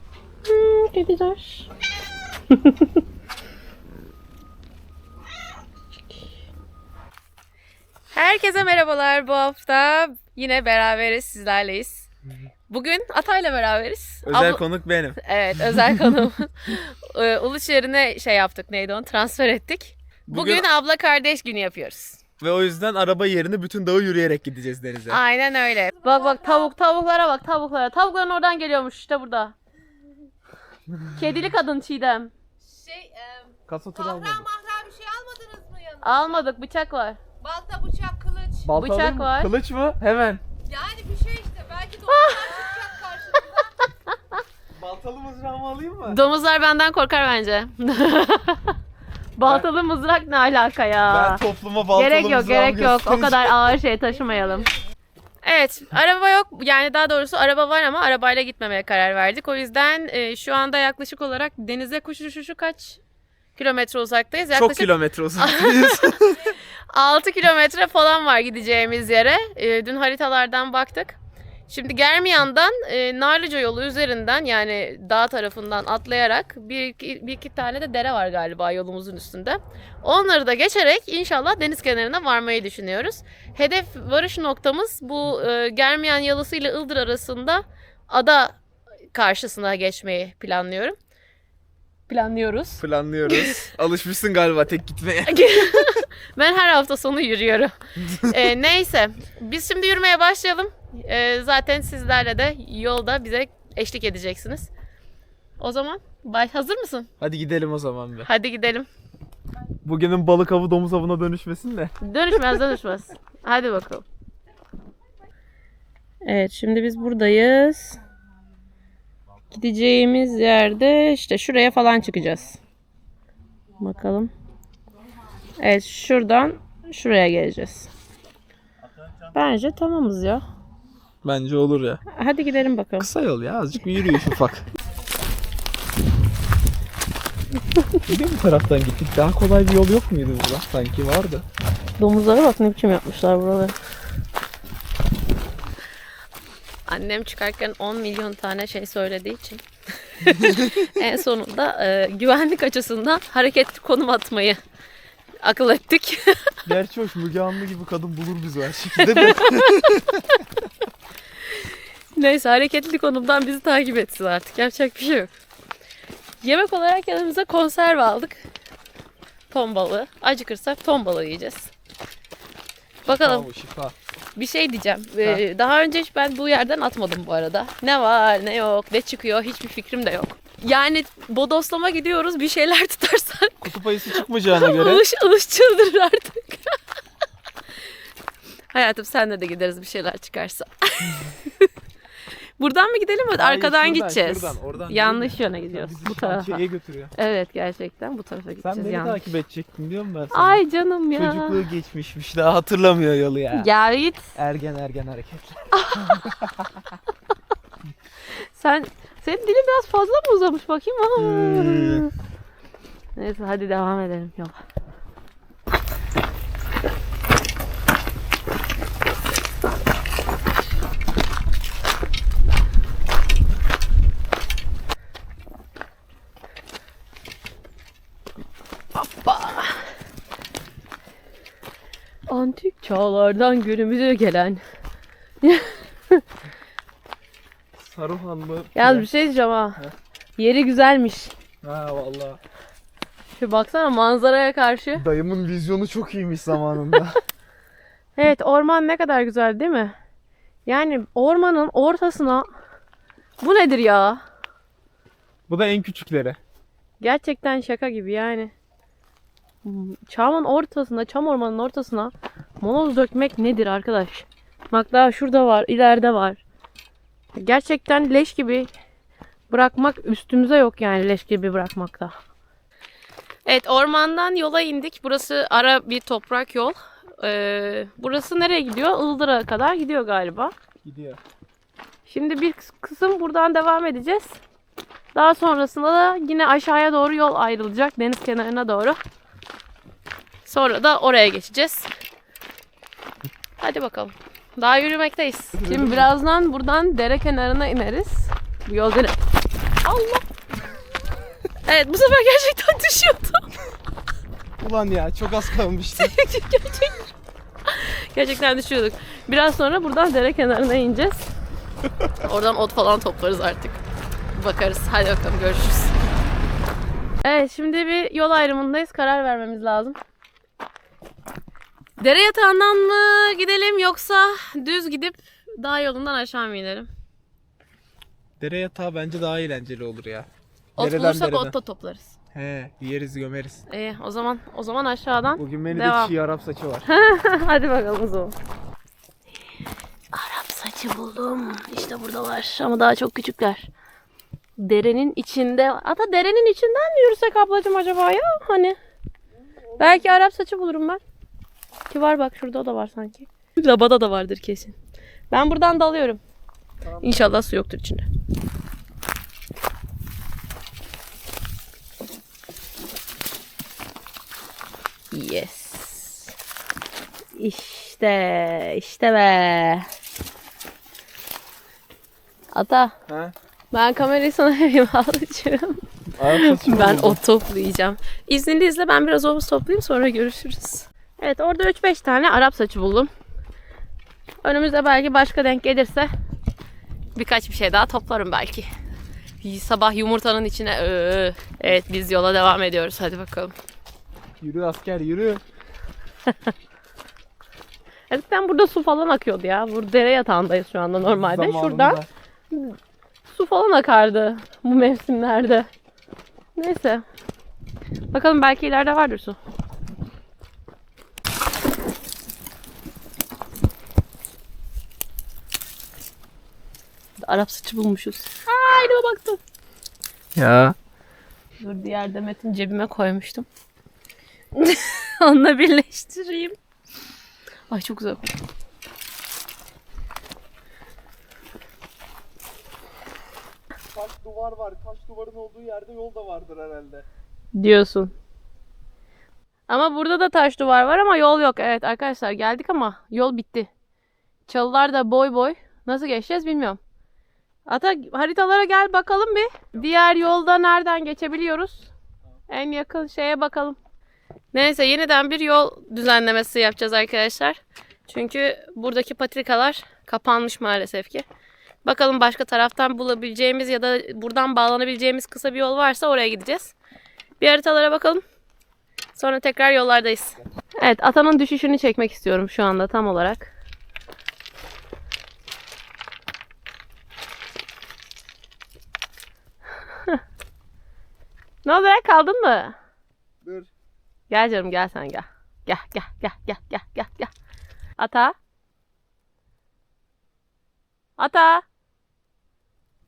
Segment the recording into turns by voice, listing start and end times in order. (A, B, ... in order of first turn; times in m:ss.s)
0:00.4-0:01.7 A
0:02.5-0:02.9 A
0:08.1-0:12.1 A
0:12.7-0:14.6 A
0:14.2-0:15.2 B
0:15.2-0:22.2 A
0:20.3-0:20.6 B
0:22.4-0:25.2 B
0:25.1-0:29.5 A
0:26.0-0:26.7 C
0:31.1-0:32.3 A
0:32.6-0:36.5 C
0:33.7-0:34.5 B
0:36.0-0:37.2 A
0:37.4-0:38.8 C
0:38.6-0:40.4 B
0:38.7-0:39.5 A
0:40.6-0:43.7 C
0:42.1-0:42.8 A
0:44.8-0:46.2 B
0:46.1-0:48.8 A
0:49.4-0:51.4 A
0:51.1-0:53.5 B
0:51.9-0:54.7 A
0:55.4-1:03.0 A
1:03.6-1:06.2 A
1:04.5-1:06.5 B
1:06.9-1:11.2 A
1:11.7-1:28.6 A
1:29.1-1:31.0 A
1:32.1-1:33.6 A
1:32.8-1:36.0 B
1:35.2-1:44.7 A
1:38.0-1:38.4 B
1:45.6-1:47.1 A
1:47.2-1:48.3 B
1:48.2-1:48.9 A
1:49.8-1:52.4 B
1:52.0-1:54.0 A
1:56.2-1:58.0 A
1:59.5-2:02.6 A
2:03.8-2:04.3 A
2:05.6-2:07.9 A
2:09.3-2:10.4 A
2:11.2-2:12.0 B
2:12.1-2:13.1 A
2:13.0-2:14.6 B
2:18.0-2:21.4 B
2:22.0-2:23.7 A
2:26.9-2:34.6 A
2:30.3-2:30.8 B
2:35.4-2:36.6 A
2:36.6-2:40.2 B
2:39.0-2:39.8 A
2:41.5-2:45.3 A
2:46.4-2:48.4 A
2:49.5-2:51.7 A
2:53.0-2:53.9 B
2:53.0-2:53.5 A
2:54.4-3:06.8 A
3:03.6-3:05.0 B
3:08.7-3:11.7 A
3:12.6-3:16.6 A
3:13.4-3:17.1 B
3:17.2-3:19.2 A
3:18.6-3:20.6 B
3:20.3-3:21.6 A
3:21.1-3:23.7 B
3:23.5-3:24.3 A
3:24.3-3:26.7 B
3:25.7-3:26.3 A
3:28.5-3:32.1 A
3:31.2-3:32.0 B
3:33.2-3:34.6 A
3:48.9-3:49.8 A
3:52.3-3:54.6 A
3:55.4-3:56.2 A
3:57.8-3:59.1 B
3:58.7-3:59.8 A
4:00.4-4:01.3 A
4:01.6-4:02.4 B
4:03.4-4:05.0 A
4:05.0-4:07.2 B
4:08.2-4:09.9 A
4:10.6-4:12.5 A
4:13.4-4:14.2 A
4:15.5-4:16.4 B
4:17.0-4:18.5 A
4:19.6-4:26.4 A
4:27.4-4:28.7 A
4:29.5-4:32.1 A
4:33.4-4:40.5 A
4:40.8-4:41.2 B
4:42.0-4:44.4 A
4:45.1-4:49.0 A
4:50.4-4:51.9 A
4:53.6-4:59.2 A
4:55.5-4:56.1 B
4:59.8-5:00.2 A
5:01.6-5:03.5 A
5:04.6-5:06.2 B
5:06.0-5:07.1 A
5:07.6-5:11.2 A
5:12.2-5:13.8 A
5:14.3-5:15.9 A
5:17.2-5:20.0 A
5:22.0-5:26.9 A
5:28.4-5:31.5 B
5:30.8-5:32.1 A
5:32.3-5:33.6 B
5:33.7-5:36.1 A
5:35.4-5:36.8 B
5:36.8-5:38.3 A
5:40.1-5:43.7 A
5:44.6-5:48.8 A
5:49.6-5:50.1 B
5:49.8-5:51.0 A
5:51.9-5:54.8 A
5:55.3-5:56.2 A
5:57.0-5:58.0 A
6:05.1-6:06.3 A
6:07.4-6:09.9 A
6:12.5-6:12.9 A
6:13.1-6:13.3 B
6:13.7-6:23.1 A
6:16.2-6:17.2 B
6:24.4-6:26.1 A
6:27.1-6:28.7 A
6:29.4-6:33.5 A
6:34.4-6:35.4 B
6:38.1-6:42.0 A
6:41.0-6:42.1 B
6:43.3-6:45.7 A
6:46.6-6:47.0 A
6:48.1-6:49.4 A
6:57.2-6:59.4 A
7:00.3-7:00.7 B
7:01.6-7:03.4 A
7:04.5-7:06.6 A
7:07.7-7:08.3 A
7:13.9-7:17.0 B
7:17.5-7:18.1 A
7:19.7-7:23.7 A
7:24.5-7:26.8 A
7:27.7-7:31.9 A
7:32.5-7:33.8 A
7:34.5-7:41.2 A
7:41.8-7:46.7 A
7:47.4-7:48.2 A
7:49.1-7:53.5 A
8:01.6-8:02.7 A
8:03.4-8:03.7 B
8:04.3-8:07.3 A
8:08.0-8:08.4 A
8:11.2-8:11.6 A